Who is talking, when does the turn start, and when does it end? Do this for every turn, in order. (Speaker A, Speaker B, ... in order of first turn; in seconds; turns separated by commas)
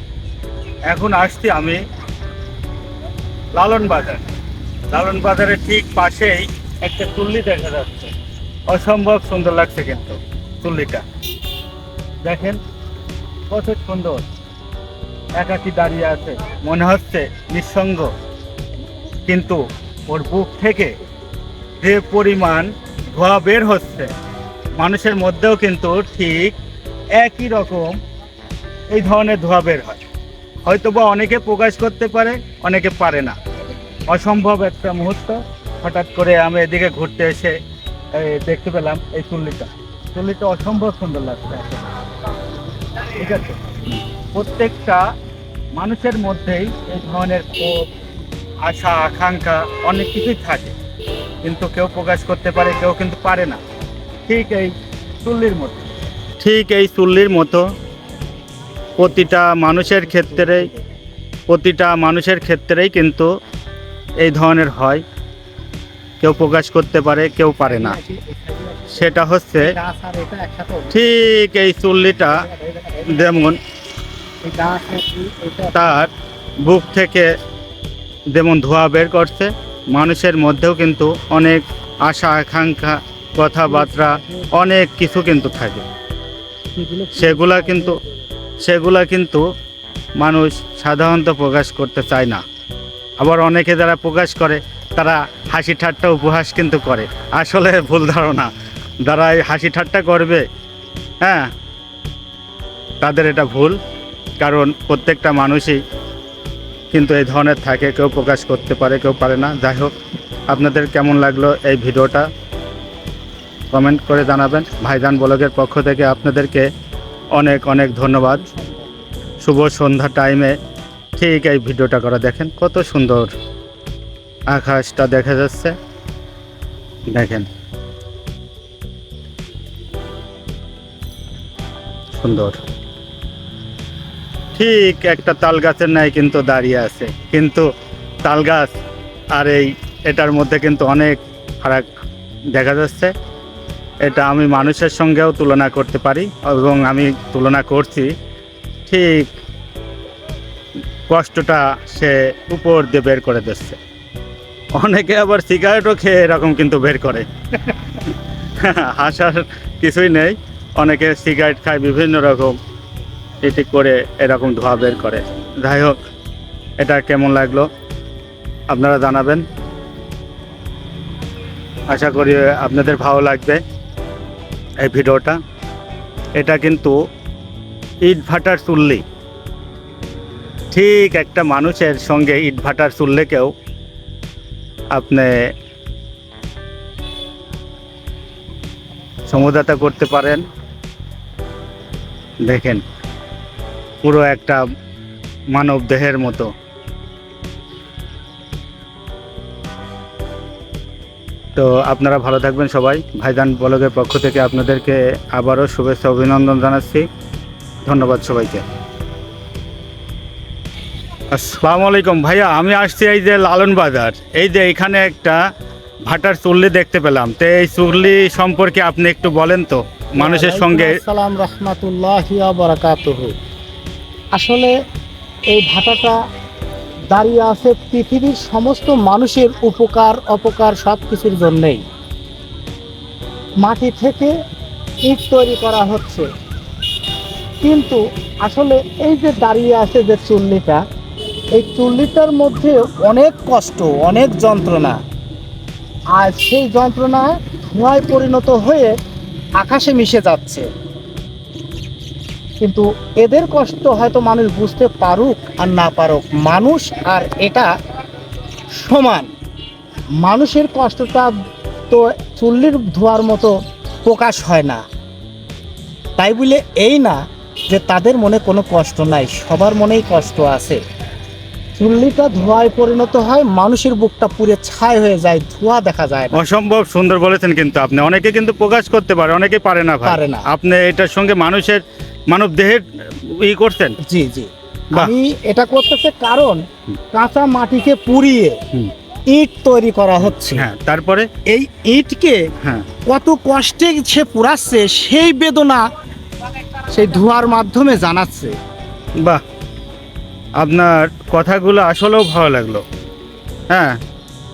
Speaker A: 0.9-1.8, Speaker A: 3.5-4.2, Speaker A: 4.9-8.1, Speaker A: 8.7-11.0, Speaker A: 12.2-12.6, Speaker A: 13.5-14.2, Speaker A: 15.3-18.1, Speaker A: 19.3-20.9, Speaker A: 21.8-24.1, Speaker A: 24.8-26.6, Speaker A: 27.2-28.0, Speaker A: 28.9-30.0, Speaker A: 30.7-33.4, Speaker A: 34.1-37.6, Speaker A: 38.1-41.9, Speaker A: 43.0-45.0, Speaker A: 45.8-47.9, Speaker A: 48.6-50.7, Speaker A: 51.4-53.6, Speaker A: 54.3-55.9, Speaker A: 56.4-57.6, Speaker A: 59.0-60.7, Speaker B: 60.1-60.7, Speaker A: 61.5-63.3, Speaker A: 64.2-65.0, Speaker A: 66.2-68.0, Speaker B: 67.6-71.3, Speaker A: 69.0-69.8, Speaker A: 70.9-72.4, Speaker B: 72.3-73.4, Speaker A: 73.1-73.6, Speaker B: 74.4-76.0, Speaker A: 75.7-77.3, Speaker A: 78.3-85.8, Speaker B: 83.7-84.6, Speaker B: 86.8-88.1, Speaker A: 87.2-88.0, Speaker A: 88.6-89.4, Speaker A: 90.2-92.4, Speaker A: 93.2-98.5, Speaker A: 99.0-100.5, Speaker A: 101.2-101.5, Speaker A: 103.0-103.8, Speaker A: 104.4-105.8, Speaker A: 106.9-109.9, Speaker A: 110.5-112.3, Speaker A: 113.7-116.7, Speaker A: 117.3-118.4, Speaker B: 118.3-118.8, Speaker A: 119.4-120.6, Speaker A: 121.2-123.3, Speaker A: 124.5-125.8, Speaker A: 127.1-127.5, Speaker A: 132.2-132.6, Speaker A: 134.6-137.7, Speaker A: 138.2-138.7, Speaker A: 139.3-141.9, Speaker A: 142.5-143.1, Speaker A: 144.0-148.1, Speaker A: 148.9-149.3, Speaker A: 151.1-153.8, Speaker A: 154.7-162.6, Speaker A: 163.4-166.0, Speaker A: 166.8-167.7, Speaker A: 168.7-169.4, Speaker A: 171.9-173.6, Speaker A: 174.8-175.4, Speaker A: 176.4-176.9, Speaker A: 178.0-179.0, Speaker A: 180.7-183.5, Speaker A: 184.9-185.3, Speaker A: 189.3-190.4, Speaker A: 192.4-192.8, Speaker A: 194.0-194.6, Speaker A: 195.5-196.5, Speaker A: 201.6-207.1, Speaker A: 207.8-208.6, Speaker A: 211.3-215.4, Speaker A: 216.1-221.0, Speaker B: 220.2-223.3, Speaker B: 224.3-224.7, Speaker B: 225.5-226.2, Speaker B: 227.1-231.8, Speaker B: 233.6-234.3, Speaker B: 235.0-236.3, Speaker B: 237.6-240.8, Speaker B: 241.5-245.0, Speaker B: 246.1-248.9, Speaker B: 249.6-250.7, Speaker B: 252.6-257.7, Speaker B: 258.8-259.3, Speaker B: 260.2-261.3, Speaker B: 261.9-263.5, Speaker B: 264.1-264.8, Speaker B: 266.2-267.2, Speaker B: 267.7-270.8, Speaker B: 271.8-276.4, Speaker A: 276.3-284.0, Speaker B: 280.0-280.5, Speaker B: 284.0-286.6, Speaker B: 287.1-288.6, Speaker B: 289.3-290.7, Speaker A: 290.2-291.3, Speaker B: 291.4-292.4, Speaker A: 292.6-292.9, Speaker B: 293.1-295.8, Speaker B: 296.9-298.6, Speaker A: 300.6-302.8, Speaker A: 303.7-304.0